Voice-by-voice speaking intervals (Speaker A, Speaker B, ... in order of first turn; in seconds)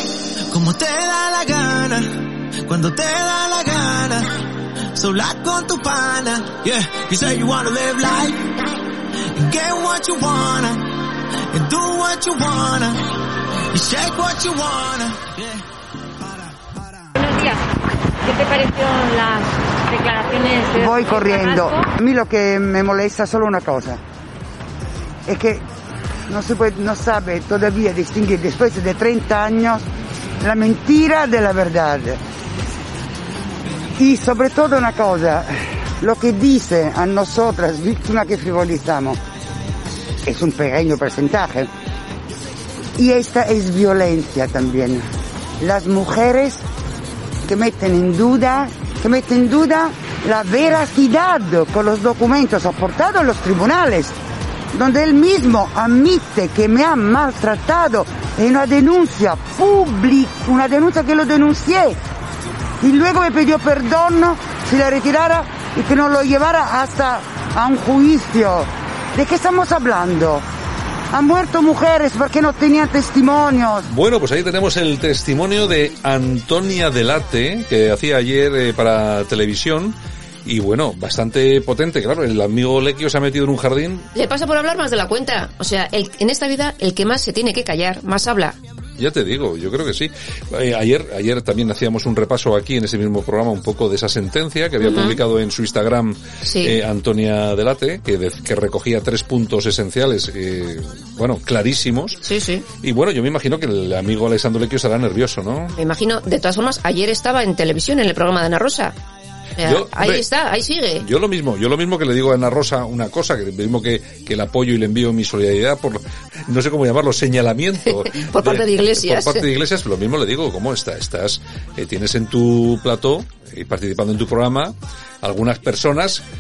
Speaker A: 0.5-15.6
Speaker B: 17.2-21.8
Speaker C: 20.8-24.0, 25.3-25.6, 26.3-29.8, 30.4-32.2, 34.0-39.2, 40.2-41.7, 43.0-45.0, 45.6-46.6, 47.5-54.2, 54.7-62.0, 62.8-70.4, 71.1-73.9
Speaker D: 73.9-84.1, 89.0-102.2, 102.8-105.8, 109.6-110.2, 111.0-126.2
Speaker E: 84.1-88.6, 94.8-95.2, 96.4-96.8, 102.2-102.7, 105.8-108.9, 109.6-111.1, 118.0-119.5